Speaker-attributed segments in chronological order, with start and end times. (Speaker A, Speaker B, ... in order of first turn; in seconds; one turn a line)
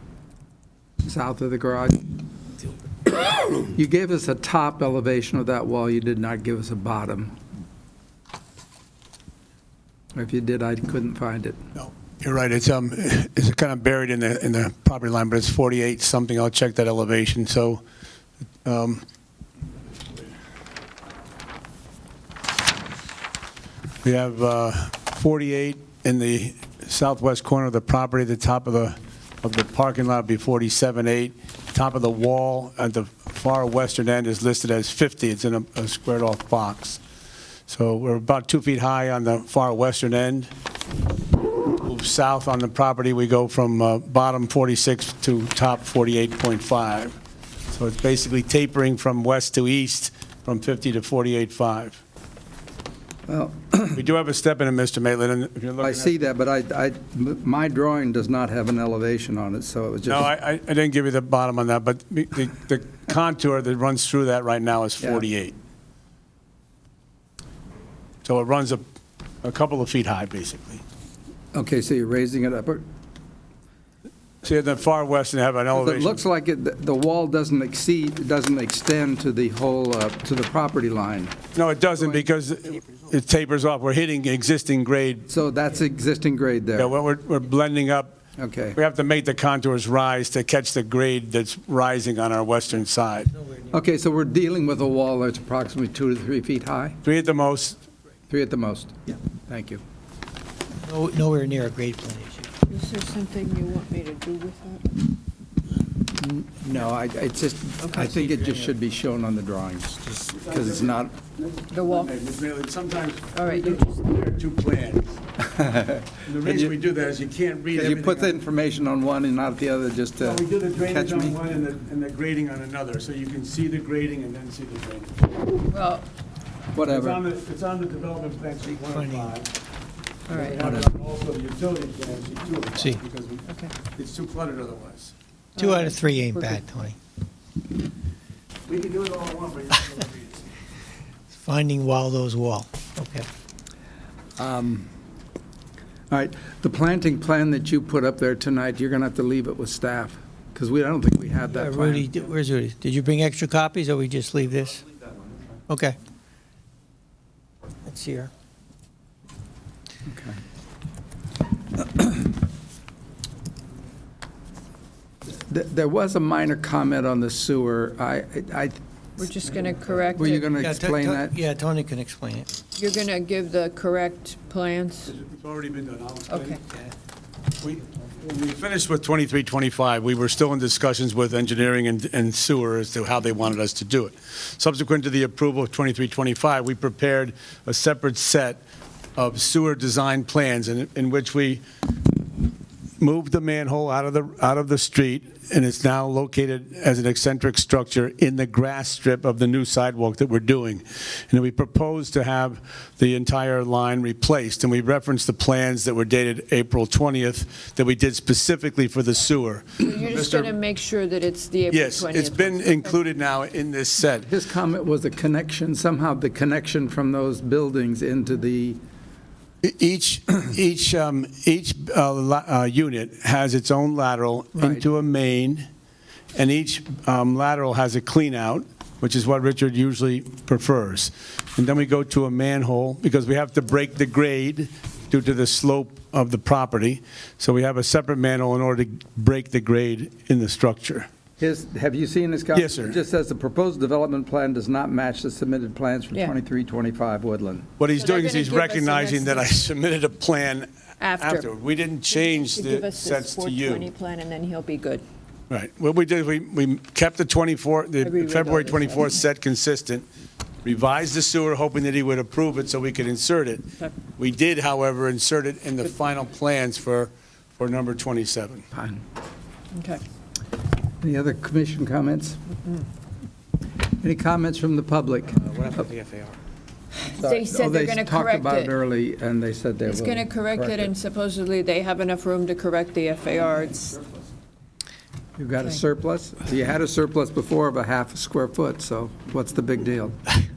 Speaker A: 1.1-2.1
Speaker A: 3.5-7.4
Speaker A: 10.2-11.6
Speaker B: 11.8-17.8
Speaker B: 18.6-19.0
Speaker B: 24.0-37.0
Speaker B: 37.7-40.5
Speaker B: 41.7-47.1
Speaker B: 47.7-52.0
Speaker A: 53.3-54.0
Speaker B: 53.9-56.2
Speaker A: 55.8-60.3
Speaker B: 60.1-65.5
Speaker B: 68.2-68.8
Speaker B: 69.4-70.8
Speaker A: 71.5-72.8
Speaker B: 74.4-76.2
Speaker A: 75.7-81.4
Speaker B: 81.5-85.3
Speaker A: 85.3-86.9
Speaker B: 86.8-88.2
Speaker A: 88.4-88.8
Speaker B: 88.8-93.3
Speaker A: 93.7-97.0
Speaker B: 97.0-97.8
Speaker A: 98.3-99.8
Speaker C: 100.8-102.5
Speaker D: 102.7-105.1
Speaker A: 106.2-111.1
Speaker D: 107.8-108.1
Speaker C: 108.0-108.7
Speaker B: 110.4-115.2
Speaker D: 111.7-112.1
Speaker D: 113.3-113.8
Speaker A: 115.5-116.7
Speaker B: 116.2-118.4
Speaker A: 117.7-121.4
Speaker B: 120.2-125.7
Speaker D: 125.7-126.1
Speaker A: 126.7-127.2
Speaker B: 126.9-129.5
Speaker C: 128.8-129.3
Speaker D: 130.3-130.6
Speaker B: 130.3-135.1
Speaker A: 130.4-130.9
Speaker D: 133.5-133.7
Speaker D: 135.6-136.6
Speaker C: 135.6-137.0
Speaker B: 138.7-140.2
Speaker C: 141.3-143.3
Speaker A: 144.4-144.9
Speaker A: 146.1-152.2
Speaker C: 151.5-154.8
Speaker C: 155.7-156.0
Speaker C: 157.9-158.3
Speaker A: 160.1-160.4
Speaker A: 165.4-168.8
Speaker D: 169.2-170.5
Speaker A: 170.1-171.4
Speaker C: 170.4-172.5
Speaker D: 172.8-175.1
Speaker B: 175.1-176.6
Speaker D: 176.3-176.6
Speaker B: 177.6-188.6
Speaker B: 189.2-191.6
Speaker B: 193.0-210.5
Speaker D: 209.8-213.0
Speaker B: 211.7-214.3
Speaker A: 214.1-218.8
Speaker B: 219.6-225.7
Speaker A: 224.6-224.8
Speaker B: 226.3-241.1
Speaker A: 241.4-247.7
Speaker B: 242.5-243.0
Speaker B: 247.8-253.9
Speaker D: 248.0-249.8
Speaker D: 251.0-251.5
Speaker D: 252.1-255.0
Speaker B: 255.5-260.1
Speaker D: 258.0-259.2
Speaker B: 260.6-268.6
Speaker A: 268.7-269.0
Speaker D: 269.7-270.0
Speaker A: 271.0-272.4
Speaker A: 273.9-275.9
Speaker B: 275.9-276.3
Speaker D: 277.1-278.8
Speaker A: 277.1-280.9
Speaker D: 279.9-284.0
Speaker A: 285.4-290.2